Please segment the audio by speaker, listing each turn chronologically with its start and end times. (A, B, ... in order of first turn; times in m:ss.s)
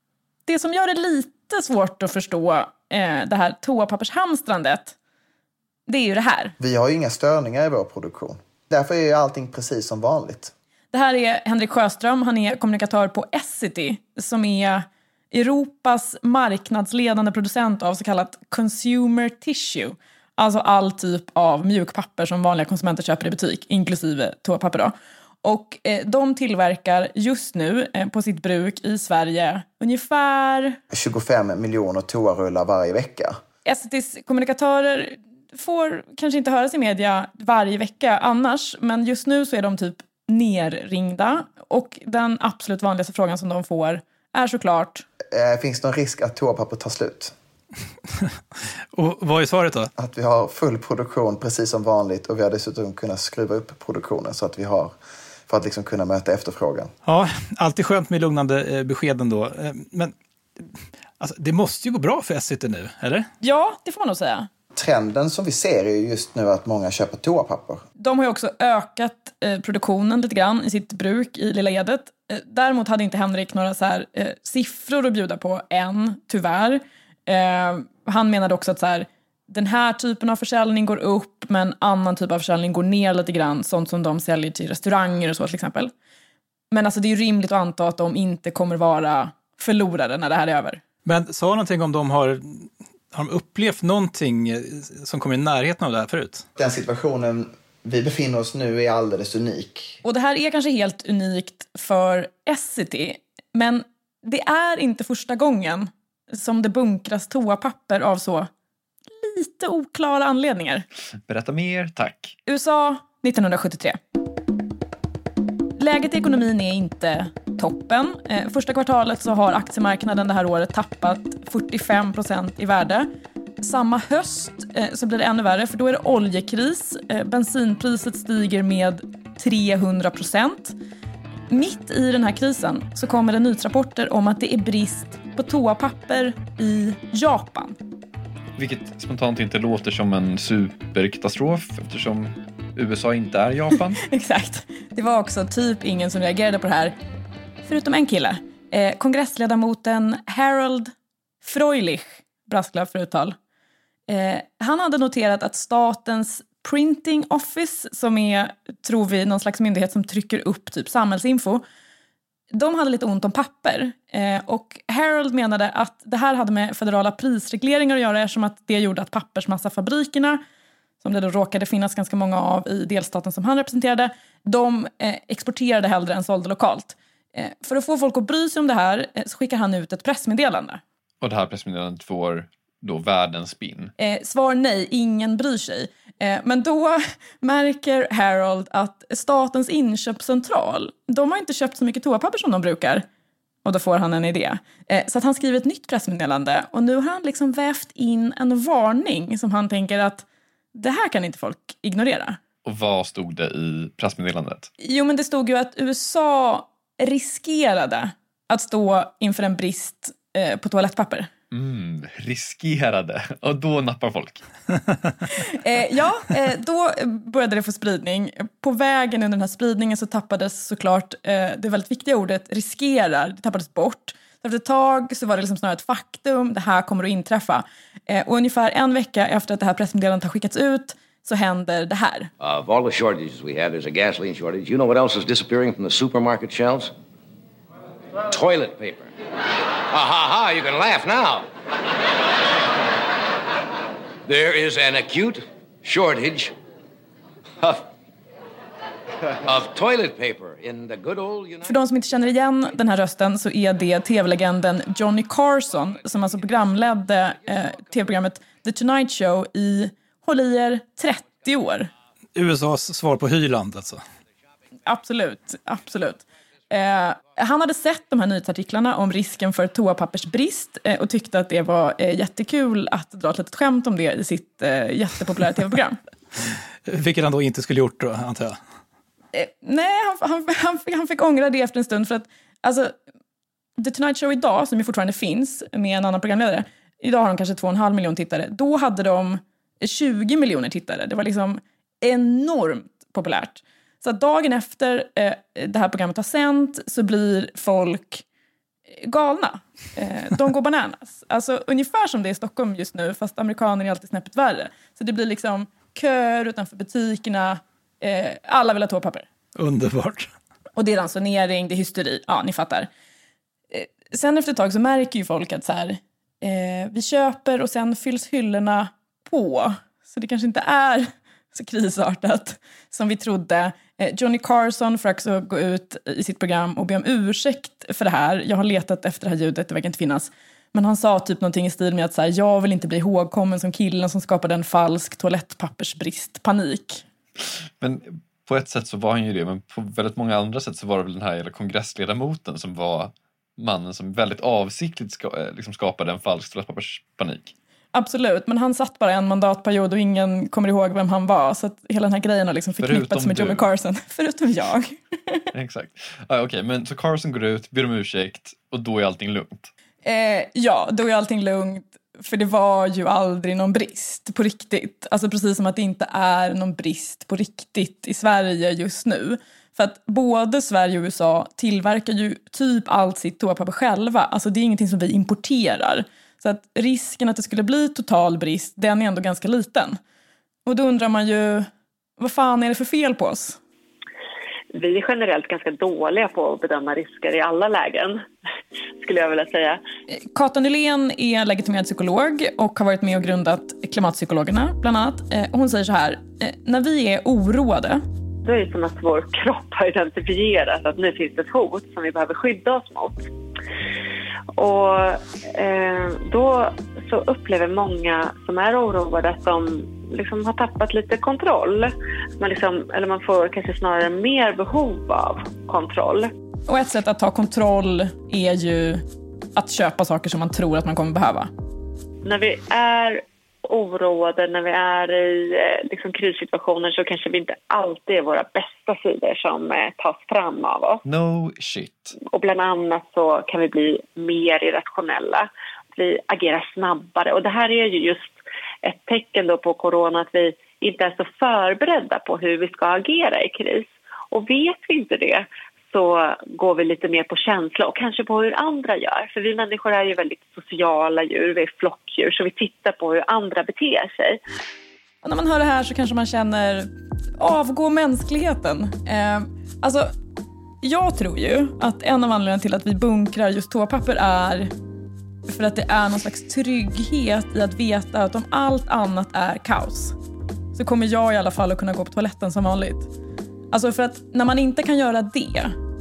0:00.5-0:05.0 A
0:05.9-0:06.6 A
0:06.6-0:10.5 B
0:10.9-0:30.8 A
0:30.9-0:33.4 B
0:33.7-0:45.1 A
0:45.3-0:47.3 B
0:48.9-0:49.9 C
0:50.0-0:54.9 B
0:55.5-0:56.9 B
0:57.0-1:03.3 C
1:03.4-1:04.5 A
1:04.8-1:07.8 B
1:08.0-1:25.9 A
1:26.7-1:30.8 A
1:31.0-1:36.4 C
1:36.6-1:40.0 B
1:40.0-1:48.5 A
1:49.1-1:50.8 A
1:51.3-1:52.4 D
1:52.5-1:54.0 A
1:55.8-2:03.1 A
2:03.6-2:10.8 A
2:11.5-2:17.8 A
2:18.6-2:24.0 D
2:24.0-2:27.0 A
2:27.7-2:30.9 A
2:31.4-2:33.4 A
2:34.1-2:41.6 A
2:42.5-2:50.4 A
2:51.0-3:00.8 A
3:01.2-3:03.9 D
3:04.0-3:13.1 A
3:13.6-3:22.4 A
3:22.6-3:24.7 D
3:24.8-3:31.3 A
3:31.5-3:34.4 D
3:35.4-3:52.3 A
3:52.4-3:56.9 E
3:58.3-3:59.1 E
3:59.9-4:01.5 E
4:04.3-4:06.5 E
4:09.4-4:11.7 E
4:11.6-4:21.9 A
4:22.4-4:24.0 C
4:24.9-4:36.0 A
4:36.9-4:38.6 C
4:39.3-4:42.9 A
4:43.8-4:58.2 A
4:58.9-5:09.3 A
5:09.6-5:10.3 C
5:10.8-5:12.9 A
5:13.7-5:37.0 A
5:37.8-5:47.5 D
5:47.9-5:55.5 A
5:52.8-5:53.7 D
5:55.5-5:59.7 D
6:00.0-6:20.0 A
6:20.7-6:23.6 A
6:24.8-6:28.2 F
6:29.0-6:29.8 F
6:30.1-6:38.0 A
6:38.4-6:43.3 F
6:44.6-6:56.3 F
6:56.7-6:59.0 A
6:59.6-7:01.5 A
7:02.2-7:11.0 F
7:11.0-7:12.2 D
7:12.2-7:34.4 F
7:35.2-7:40.1 A
7:40.8-7:44.7 A
7:45.5-7:50.2 A
7:50.8-7:53.1 A
7:53.7-7:55.8 A